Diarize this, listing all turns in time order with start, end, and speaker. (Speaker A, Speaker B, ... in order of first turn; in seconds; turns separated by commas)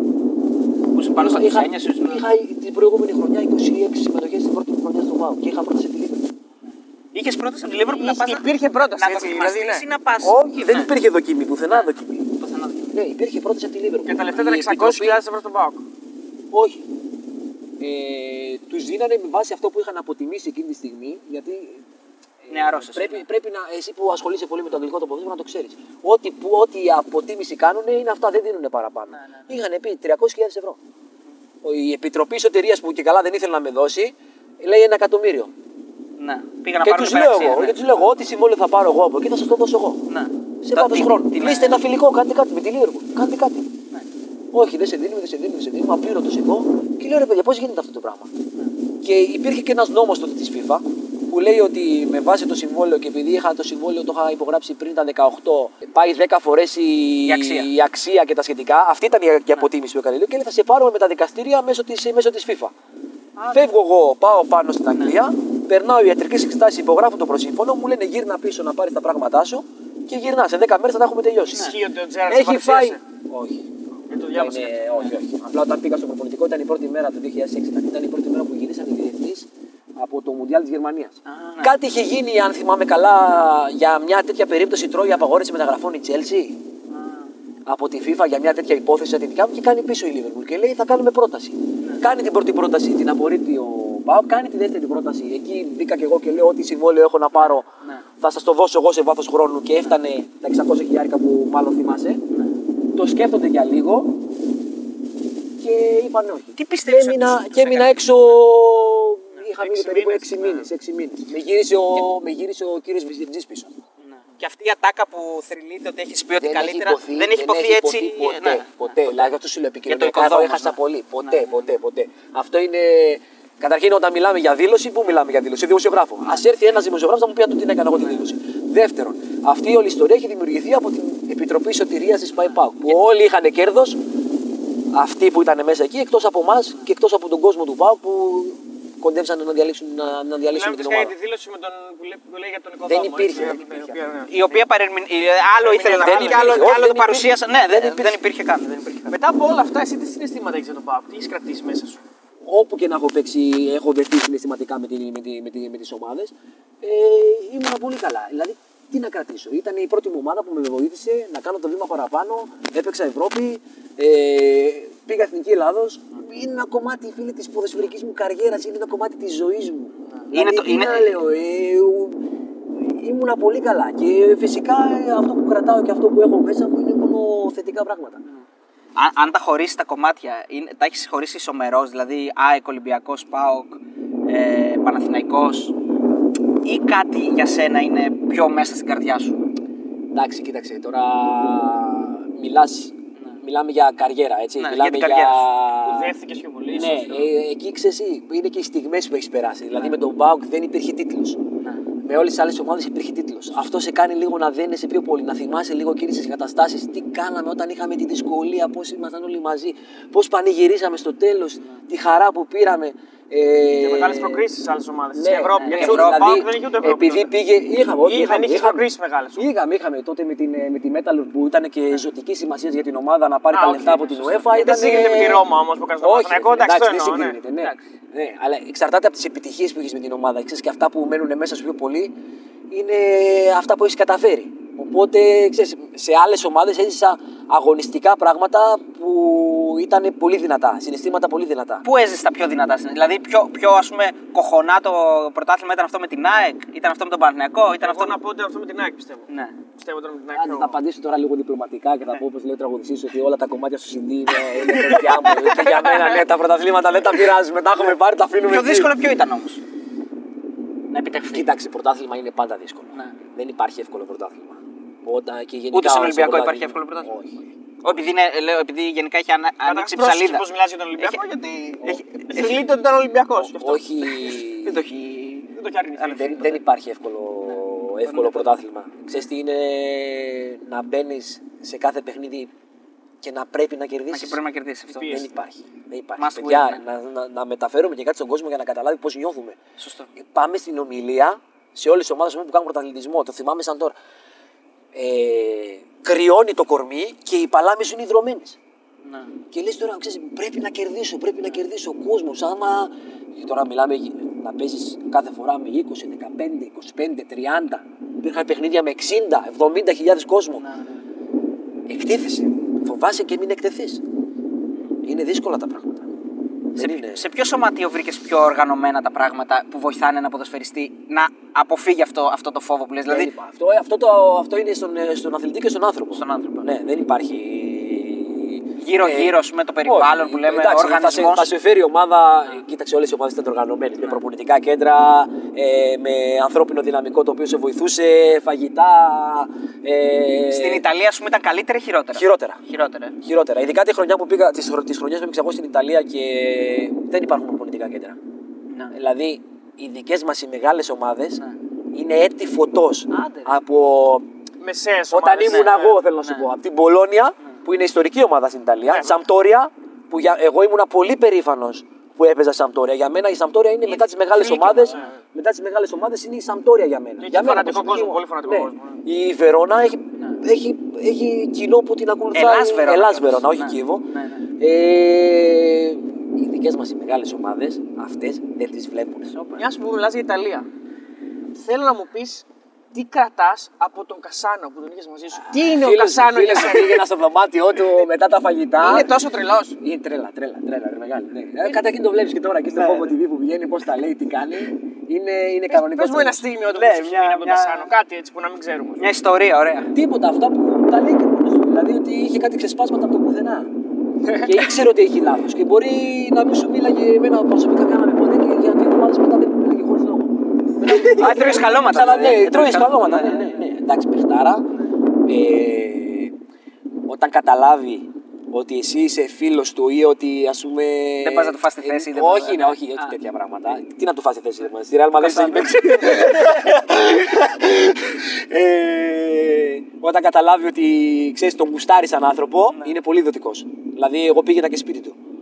Speaker A: 0.9-2.2, Speaker B: 1.1-6.3, Speaker A: 7.1-10.9, Speaker C: 7.8-9.8, Speaker B: 10.2-12.3, Speaker A: 12.4-12.9, Speaker B: 12.9-15.2, Speaker C: 14.1-15.8, Speaker B: 16.5-16.8, Speaker B: 17.8-21.8, Speaker B: 22.4-30.8, Speaker A: 22.5-23.2, Speaker A: 29.2-29.5, Speaker B: 31.6-35.5, Speaker A: 36.2-37.8, Speaker B: 36.8-40.0, Speaker A: 40.1-41.8, Speaker B: 40.6-43.7, Speaker B: 44.5-48.3, Speaker B: 49.0-62.7, Speaker A: 57.2-57.7, Speaker B: 63.5-71.8, Speaker A: 71.5-71.8, Speaker C: 71.5-73.0, Speaker B: 72.2-86.6, Speaker C: 74.1-75.1, Speaker A: 81.2-81.7, Speaker A: 86.9-87.3, Speaker B: 87.7-97.7, Speaker A: 97.3-98.0, Speaker B: 98.2-102.2, Speaker B: 102.9-104.2, Speaker B: 105.6-113.8, Speaker A: 106.5-108.0, Speaker A: 109.4-110.6, Speaker A: 114.2-119.3, Speaker B: 116.4-134.0, Speaker A: 119.9-121.7, Speaker A: 132.4-132.9, Speaker B: 134.9-141.1, Speaker C: 140.5-144.6, Speaker B: 142.8-144.0, Speaker A: 144.3-149.2, Speaker C: 145.6-146.8, Speaker B: 146.0-148.2, Speaker C: 149.1-152.0, Speaker B: 152.5-172.2, Speaker A: 170.3-171.2, Speaker B: 172.8-178.2, Speaker A: 178.9-185.7, Speaker A: 186.6-189.4, Speaker B: 190.1-196.1, Speaker A: 194.6-195.5, Speaker C: 195.8-197.3, Speaker B: 196.7-201.4, Speaker B: 202.0-214.4, Speaker C: 213.8-217.3, Speaker B: 215.1-225.5, Speaker A: 215.6-216.4, Speaker C: 218.0-219.4, Speaker C: 223.5-227.4, Speaker B: 226.0-232.1, Speaker B: 232.7-241.8, Speaker A: 241.8-248.2, Speaker C: 247.8-250.7, Speaker A: 249.3-249.6, Speaker B: 250.3-258.9, Speaker A: 258.4-259.6, Speaker A: 260.9-261.5, Speaker B: 261.3-267.4, Speaker A: 265.7-267.1, Speaker A: 267.8-271.2, Speaker C: 269.6-273.8, Speaker A: 271.8-272.6, Speaker B: 273.4-274.8, Speaker A: 274.5-276.1, Speaker C: 275.5-276.6, Speaker B: 276.0-282.5, Speaker A: 278.0-278.5, Speaker B: 283.2-284.4, Speaker A: 284.1-285.2, Speaker C: 284.9-285.2, Speaker B: 285.0-289.6, Speaker A: 286.2-286.8, Speaker A: 289.8-290.1, Speaker B: 290.2-293.9, Speaker B: 294.9-298.6, Speaker A: 299.1-299.3, Speaker B: 299.5-310.6, Speaker A: 310.6-311.0, Speaker B: 311.9-314.0, Speaker B: 315.0-316.1, Speaker B: 316.7-317.3, Speaker A: 316.8-323.3, Speaker B: 323.1-340.8, Speaker A: 326.1-326.7, Speaker A: 328.8-331.5, Speaker A: 340.5-343.1, Speaker B: 342.1-342.6, Speaker B: 343.2-348.2, Speaker B: 348.9-351.4, Speaker B: 351.9-354.3, Speaker A: 353.1-353.5, Speaker C: 354.6-356.0, Speaker B: 355.1-379.3, Speaker A: 356.2-356.5, Speaker C: 358.9-359.2, Speaker A: 363.9-365.1, Speaker C: 364.8-365.2, Speaker C: 367.2-369.0, Speaker A: 372.3-374.4, Speaker A: 379.3-379.7, Speaker C: 379.6-380.7, Speaker C: 381.6-387.1, Speaker B: 385.4-389.1, Speaker C: 388.8-389.8, Speaker B: 389.8-396.4, Speaker A: 392.8-393.0, Speaker C: 395.7-399.0, Speaker A: 396.7-397.9, Speaker A: 399.0-399.9, Speaker B: 399.9-403.7, Speaker B: 404.4-414.7, Speaker A: 410.8-413.6, Speaker C: 410.9-411.6, Speaker B: 415.3-416.3, Speaker B: 417.1-435.2, Speaker A: 421.2-423.1, Speaker A: 425.2-426.7